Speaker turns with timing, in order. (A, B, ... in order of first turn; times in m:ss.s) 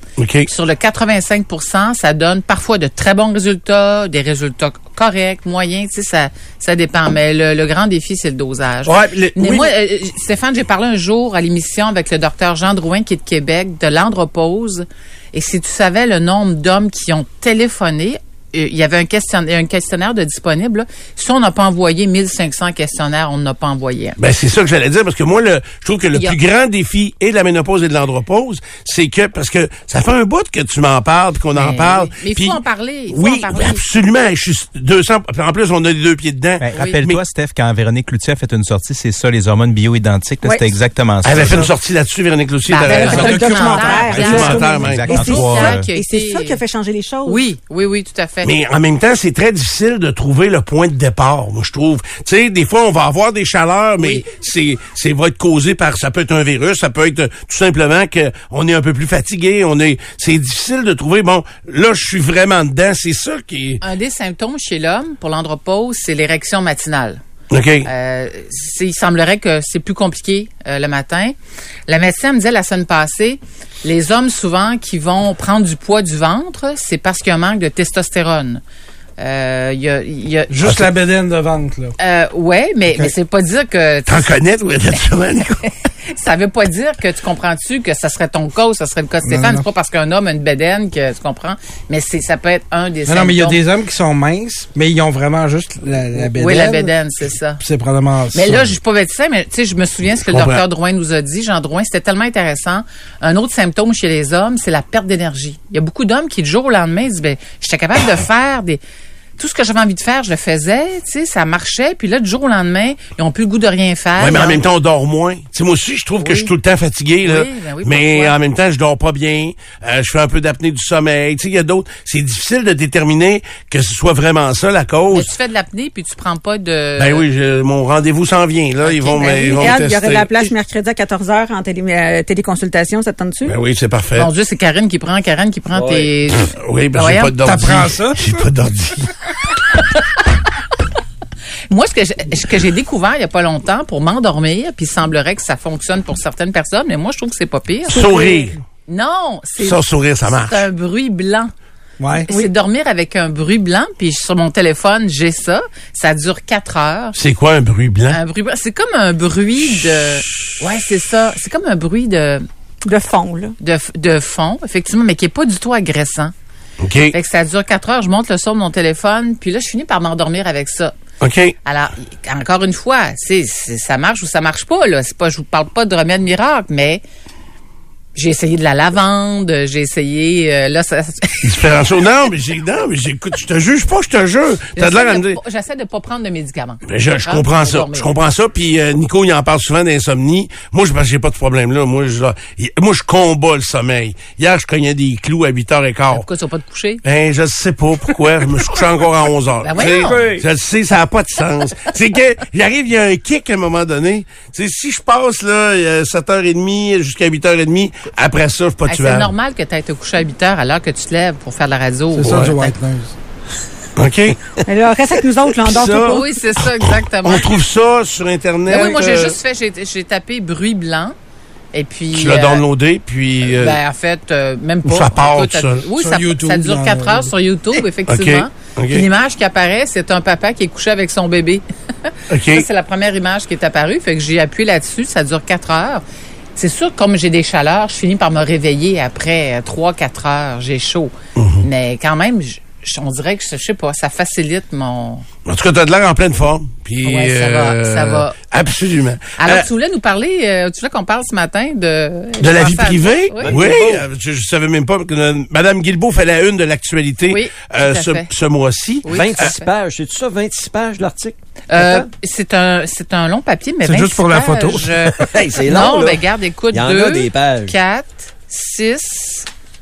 0:00.2-0:00.5 A
0:00.5-0:24.2 B
0:08.8-0:09.7 A
0:24.2-0:37.2 A
0:31.5-0:33.8 B
0:36.6-0:41.7 C
0:36.7-0:37.0 B
0:40.4-0:40.8 D
0:41.2-0:45.3 A
0:41.4-0:41.7 E
0:42.7-0:46.6 B
0:42.9-0:47.4 D
0:43.0-0:44.3 E
0:44.2-0:45.9 C
0:47.2-0:48.5 B
0:48.4-1:03.8 A
0:54.0-0:54.3 B
1:03.8-1:07.2 B
1:07.5-1:07.9 A
1:07.8-1:11.3 B
1:11.9-1:18.6 B
1:19.2-1:20.6 B
1:20.5-1:21.9 E
1:22.0-1:24.3 B
1:24.1-1:25.6 A
1:26.1-1:33.6 B
1:29.2-1:29.6 E
1:33.0-1:36.9 E
1:36.3-1:37.6 B
1:37.6-1:38.7 E
1:38.3-1:48.8 B
1:40.3-1:40.6 A
1:49.4-1:54.6 B
1:54.2-2:05.3 A
1:56.2-1:56.5 B
1:57.2-1:58.3 B
2:05.1-2:07.2 B
2:07.0-2:10.5 A
2:08.8-2:09.8 B
2:09.2-2:13.6 D
2:13.4-2:14.3 A
2:14.2-2:17.3 B
2:15.7-2:16.1 F
2:16.4-2:19.1 A
2:17.4-2:18.5 E
2:21.7-2:31.5 B
2:27.9-2:28.6 A
2:28.0-2:28.5 D
2:29.6-2:30.6 A
2:32.0-2:32.3 E
2:32.3-2:37.2 B
2:37.1-2:38.2 A
2:38.1-2:42.4 B
2:42.8-2:43.5 D
2:43.6-2:46.3 B
2:46.8-2:47.1 A
2:47.1-2:50.9 B
2:51.2-2:51.5 A
2:51.6-2:57.0 B
2:58.1-3:01.7 B
3:01.4-3:05.4 A
3:04.8-3:08.1 B
3:06.8-3:16.2 A
3:16.1-3:17.0 B
3:17.0-3:29.3 A
3:19.6-3:20.3 B
3:19.8-3:20.4 F
3:28.9-3:32.7 B
3:32.1-3:33.1 E
3:32.2-3:32.5 A
3:34.0-3:34.6 A
3:34.7-3:36.2 D
3:35.6-3:36.2 A
3:35.9-3:37.5 B
3:36.8-3:39.4 A
3:38.7-3:41.1 B
3:41.7-3:42.6 B
3:42.1-3:43.8 A
3:43.4-3:56.0 B
3:44.8-3:45.8 A
3:46.0-3:47.3 E
3:48.1-3:49.0 A
3:52.3-3:52.6 A
3:56.6-4:05.2 B
4:01.4-4:01.6 A
4:05.4-4:09.7 A
4:07.0-4:08.4 B
4:09.4-4:13.6 B
4:12.4-4:19.5 A
4:13.4-4:14.0 F
4:17.3-4:18.3 B
4:19.0-4:19.7 B
4:19.1-4:22.1 F
4:21.7-4:29.5 B
4:23.8-4:25.3 E
4:25.3-4:27.8 F